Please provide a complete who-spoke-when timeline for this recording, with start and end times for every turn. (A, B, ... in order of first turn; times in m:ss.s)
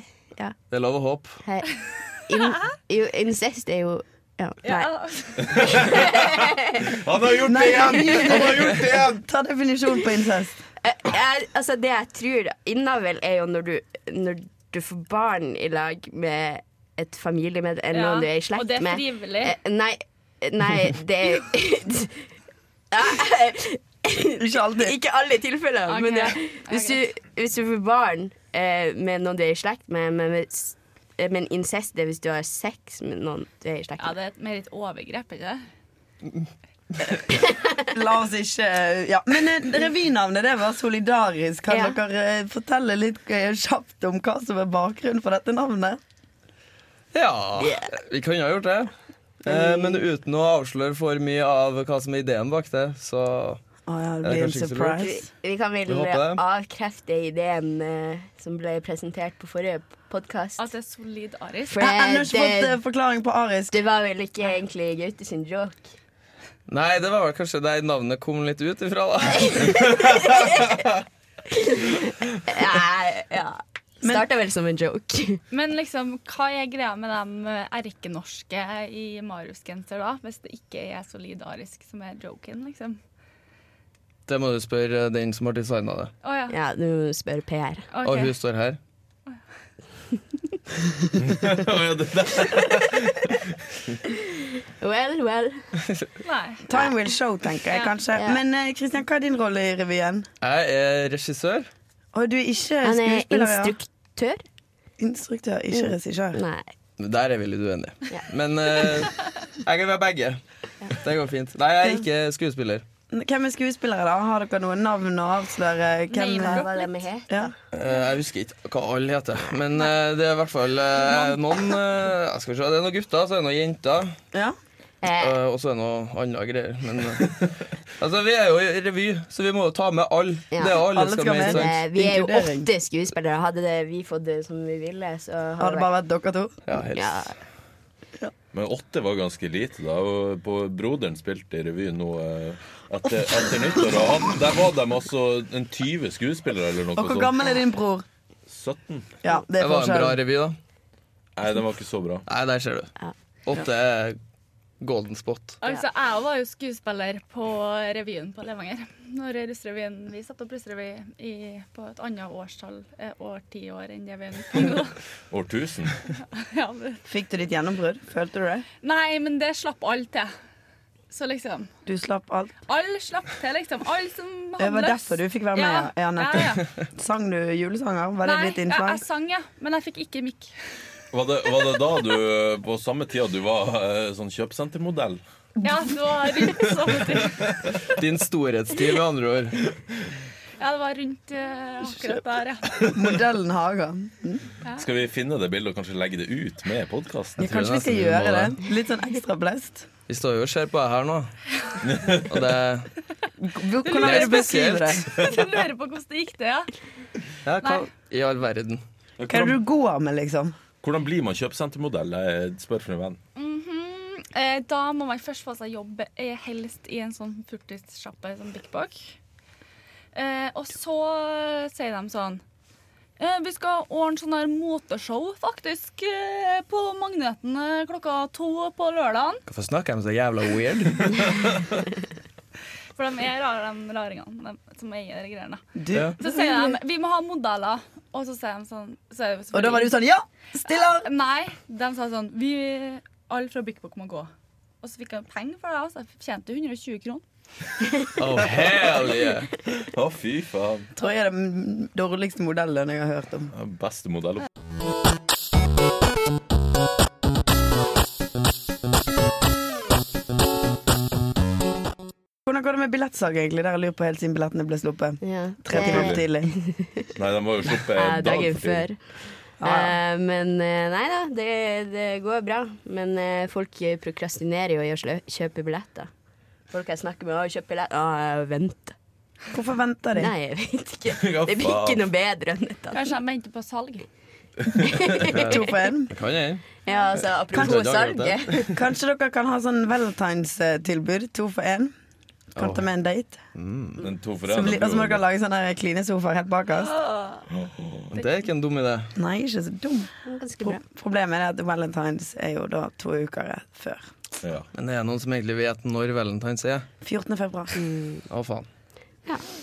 0:00.7-0:01.4 A
0:01.4-0:04.9 B
0:04.6-0:05.9 C
0:05.4-0:09.1 D
0:05.8-0:06.9 B
0:07.4-0:10.6 E
0:10.8-0:22.3 B
0:17.9-0:19.6 C
0:22.9-0:34.1 B
0:24.4-0:24.9 E
0:25.9-0:27.0 C
0:34.0-0:35.6 C
0:37.3-0:37.9 B
0:37.9-0:46.0 E
0:41.7-0:42.0 B
0:47.1-0:48.9 A
0:47.6-0:47.9 B
0:49.4-0:53.6 A
0:49.5-0:50.0 B
0:53.8-0:55.2 E
0:54.2-0:55.1 A
0:55.0-1:00.6 B
0:55.9-0:56.4 A
1:00.6-1:01.8 C
1:01.7-1:02.8 B
1:01.8-1:03.7 E
1:03.7-1:05.9 B
1:06.7-1:09.9 A
1:09.3-1:10.8 B
1:11.5-1:15.4 B
1:15.5-1:23.0 C
1:24.3-1:26.1 A
1:26.2-1:26.6 C
1:26.5-1:27.8 B
1:27.9-1:28.3 C
1:28.0-1:28.8 A
1:31.1-1:34.0 D
1:34.8-1:35.6 B
1:36.2-1:36.6 C
1:36.7-1:40.3 E
1:40.4-1:41.7 A
1:42.1-1:43.8 E
1:42.8-1:44.4 B
1:45.0-1:46.4 E
1:45.7-1:46.7 B
1:47.0-1:50.4 A
1:50.9-1:52.8 A
1:53.1-1:56.7 E
1:56.1-1:56.9 C
1:56.4-1:57.5 B
1:57.7-2:04.1 A
2:05.0-2:05.4 B
2:05.2-2:11.8 A
2:10.5-2:10.8 B
2:10.7-2:12.7 E
2:11.4-2:15.9 B
2:15.6-2:16.6 E
2:16.7-2:17.3 A
2:16.9-2:17.4 B
2:18.5-2:27.3 D
2:27.0-2:28.0 E
2:28.5-2:29.2 D
2:29.2-2:30.2 E
2:29.6-2:30.6 A
2:31.4-2:32.2 D
2:32.3-2:32.9 A
2:33.4-2:34.2 A
2:34.8-2:35.6 A
2:35.6-2:45.0 C
2:45.3-2:46.0 D
2:46.3-2:47.0 C
2:47.0-2:48.6 E
2:48.8-2:50.3 C
2:51.1-2:51.7 C
2:51.8-2:52.5 E
2:52.7-2:56.6 C
2:54.6-2:59.0 E
2:58.2-3:00.5 C
3:01.1-3:05.2 D
3:05.6-3:07.4 C
3:07.9-3:09.6 A
3:10.6-3:12.9 C
3:12.9-3:14.5 E
3:14.8-3:17.6 D
3:17.4-3:19.9 E
3:17.4-3:18.5 A
3:20.1-3:21.3 A
3:21.8-3:22.4 D
3:22.3-3:22.9 A
3:23.4-3:25.0 E
3:23.8-3:26.7 C
3:24.0-3:25.0 A
3:27.4-3:28.8 A
3:29.2-3:29.5 D
3:29.3-3:30.6 E
3:30.8-3:33.2 D
3:33.4-3:39.1 C
3:40.1-3:42.4 C
3:43.2-3:49.4 C
3:49.5-3:51.4 A
3:53.0-3:55.6 C
3:55.8-3:56.8 E
3:56.2-4:00.0 C
3:59.5-4:01.1 E
4:00.8-4:04.3 C
4:04.8-4:07.2 C
4:08.2-4:09.5 A
4:09.8-4:10.9 D
4:11.0-4:13.5 E
4:13.5-4:14.5 D
4:22.5-4:26.5 E
4:25.2-4:27.1 B
4:25.7-4:26.2 D
4:27.2-4:28.9 D
4:27.8-4:36.1 B
4:29.6-4:30.0 E
4:36.7-4:38.9 B
4:39.5-4:40.3 E
4:40.2-4:43.1 B
4:41.1-4:42.0 D
4:42.9-4:44.0 C
4:44.7-4:45.6 B
4:45.3-4:46.6 A
4:45.4-4:46.1 E
4:46.8-4:48.8 B
4:47.5-4:48.7 A
4:47.5-4:47.8 E
4:48.7-4:51.9 E
4:52.6-4:53.4 E
4:52.6-4:52.8 A
4:53.5-4:54.0 A
4:54.0-4:55.2 D
4:54.5-4:56.9 E
4:57.0-4:57.4 C
4:57.5-4:58.1 D
4:58.1-4:59.1 A
4:59.2-5:04.1 E
5:00.2-5:00.8 B
5:04.4-5:04.7 D
5:04.7-5:06.9 A
5:07.0-5:07.8 E
5:07.7-5:08.2 B
5:08.3-5:08.7 A